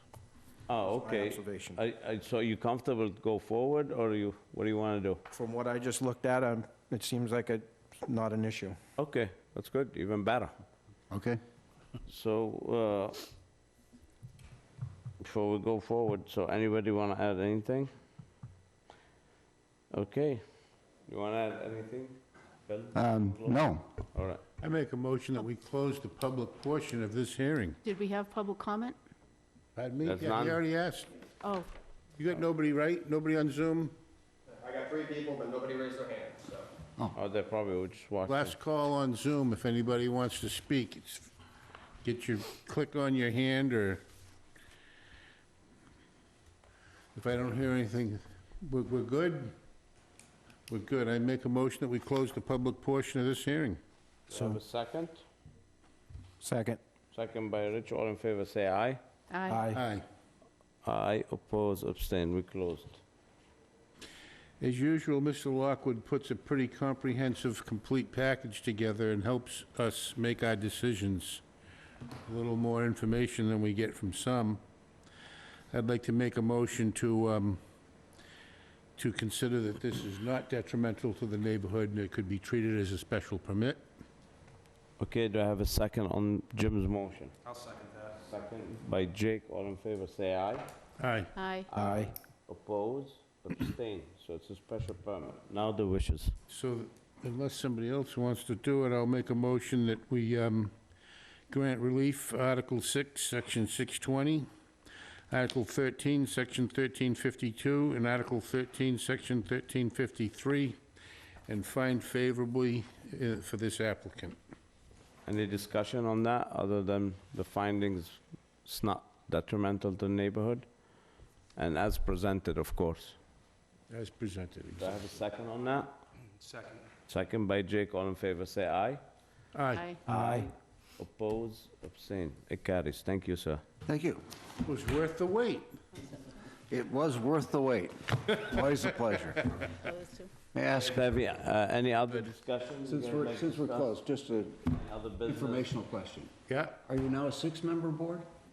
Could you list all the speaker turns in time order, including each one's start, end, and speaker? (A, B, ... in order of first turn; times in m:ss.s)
0:00.7-0:05.2 A
0:00.8-0:01.8 B
0:05.3-0:08.8 B
0:09.0-0:10.5 A
0:11.1-0:11.4 C
0:12.1-0:13.3 A
0:15.2-0:17.9 A
0:19.9-0:20.5 A
0:21.0-0:24.4 A
0:22.9-0:24.0 C
0:24.6-0:27.8 D
0:27.8-0:29.0 E
0:29.8-0:31.1 D
0:30.0-0:30.6 A
0:31.4-0:31.7 E
0:32.2-0:33.9 D
0:34.6-0:36.6 F
0:37.1-0:38.6 A
0:38.2-0:41.3 D
0:42.0-0:44.0 D
0:47.1-0:49.5 D
0:50.7-0:53.8 D
0:54.3-0:55.2 A
0:54.3-0:54.6 B
0:56.4-0:56.8 B
0:57.1-0:59.0 A
0:59.3-0:59.6 E
0:59.5-0:59.8 B
0:59.7-1:00.0 D
1:00.8-1:03.0 A
1:04.6-1:11.4 D
1:12.2-1:14.6 D
1:15.7-1:17.6 D
1:19.0-1:23.8 D
1:25.0-1:27.4 A
1:28.2-1:30.7 A
1:31.0-1:31.3 D
1:31.4-1:31.7 E
1:31.7-1:36.3 A
1:31.8-1:32.1 B
1:36.5-1:40.7 D
1:41.5-1:44.5 D
1:45.3-1:50.8 D
1:51.5-1:54.4 D
1:55.2-2:01.0 A
2:01.5-2:03.2 A
2:03.9-2:05.0 D
2:04.8-2:05.9 A
2:07.1-2:09.0 A
2:09.5-2:09.9 D
2:09.7-2:10.0 E
2:10.0-2:10.5 B
2:10.1-2:13.6 A
2:13.9-2:14.2 C
2:14.6-2:15.7 D
2:16.7-2:19.7 C
2:19.7-2:20.3 E
2:20.5-2:21.1 C
2:20.7-2:24.0 A
2:22.8-2:24.7 C
2:24.7-2:25.7 A
2:25.2-2:26.3 C
2:26.5-2:26.8 D
2:26.8-2:28.2 C